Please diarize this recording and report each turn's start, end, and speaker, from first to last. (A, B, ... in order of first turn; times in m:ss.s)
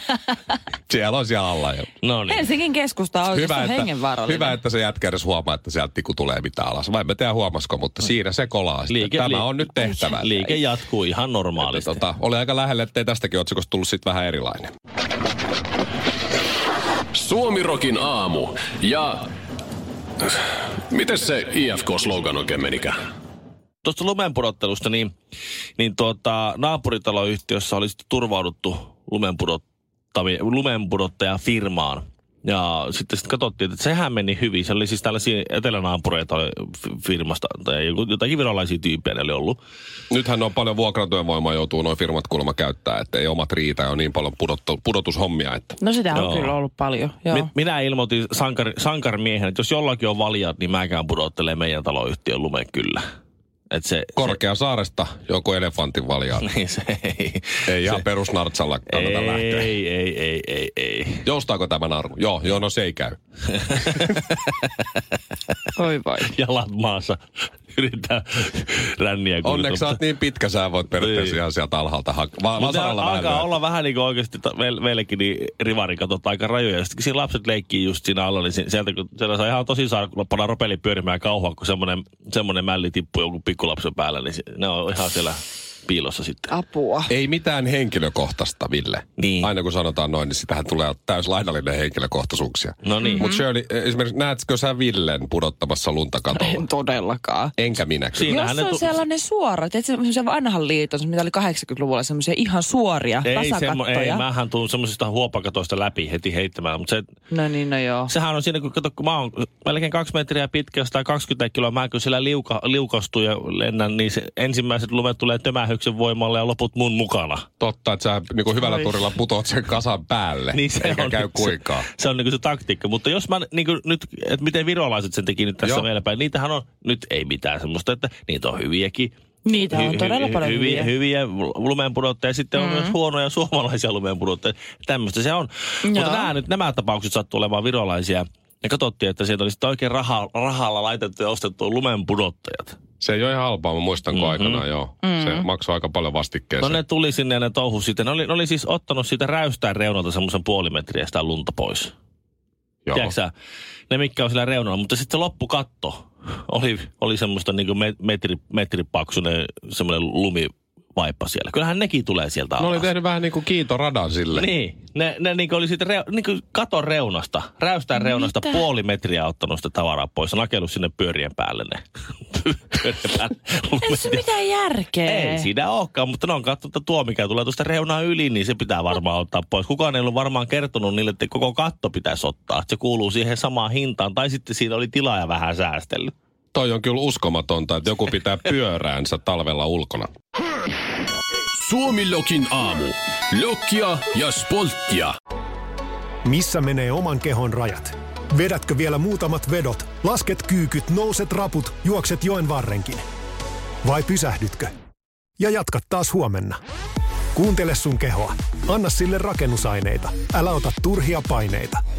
0:00.9-0:01.9 A
0:02.0-0:02.5 B
0:02.3-0:04.6 C
0:03.3-0:10.4 A
0:08.9-0:12.0 B
0:11.6-0:14.7 A
0:17.1-0:19.3 D
0:20.2-0:23.0 D
0:23.8-0:25.1 B
0:25.8-0:29.6 B
0:30.1-0:39.6 B
0:40.1-0:45.8 A
0:45.8-0:47.5 C
0:46.1-0:46.6 B
0:47.3-0:53.0 B
0:53.7-0:54.4 B
0:54.2-0:56.5 A
0:56.4-0:58.0 B
0:57.7-0:59.7 A
0:58.9-1:01.2 B
1:01.2-1:03.2 A
1:03.7-1:04.7 B
1:03.8-1:04.1 A
1:05.8-1:06.3 C
1:06.3-1:07.2 B
1:07.7-1:10.0 B
1:09.4-1:13.5 A
1:11.0-1:11.4 B
1:12.6-1:26.5 B
1:26.5-1:27.1 C
1:27.1-1:36.7 A
1:29.2-1:29.5 B
1:32.8-1:33.3 B
1:33.0-1:33.4 C
1:36.3-1:37.5 C
1:37.6-1:38.4 A
1:38.2-1:39.0 B
1:38.3-1:44.2 C
1:43.2-1:47.0 B
1:47.3-1:48.1 C
1:48.1-1:57.5 B
1:57.6-2:01.9 A
2:00.5-2:22.8 B
2:09.4-2:10.9 C
2:12.5-2:13.0 C
2:15.8-2:16.3 C
2:23.0-2:26.8 A
2:24.1-2:24.6 B
2:25.0-2:25.5 C
2:26.6-2:31.9 B
2:32.9-2:33.1 A
2:32.9-2:33.3 B
2:33.9-2:42.9 B
2:42.6-2:44.5 A
2:44.3-2:54.2 B
2:48.0-2:48.6 C
2:53.8-2:55.5 C
2:55.0-3:06.1 B
3:06.5-3:10.1 A
3:11.5-3:15.1 D
3:16.2-3:23.0 E
3:23.8-3:24.7 E
3:25.4-3:26.6 E
3:27.4-3:31.8 E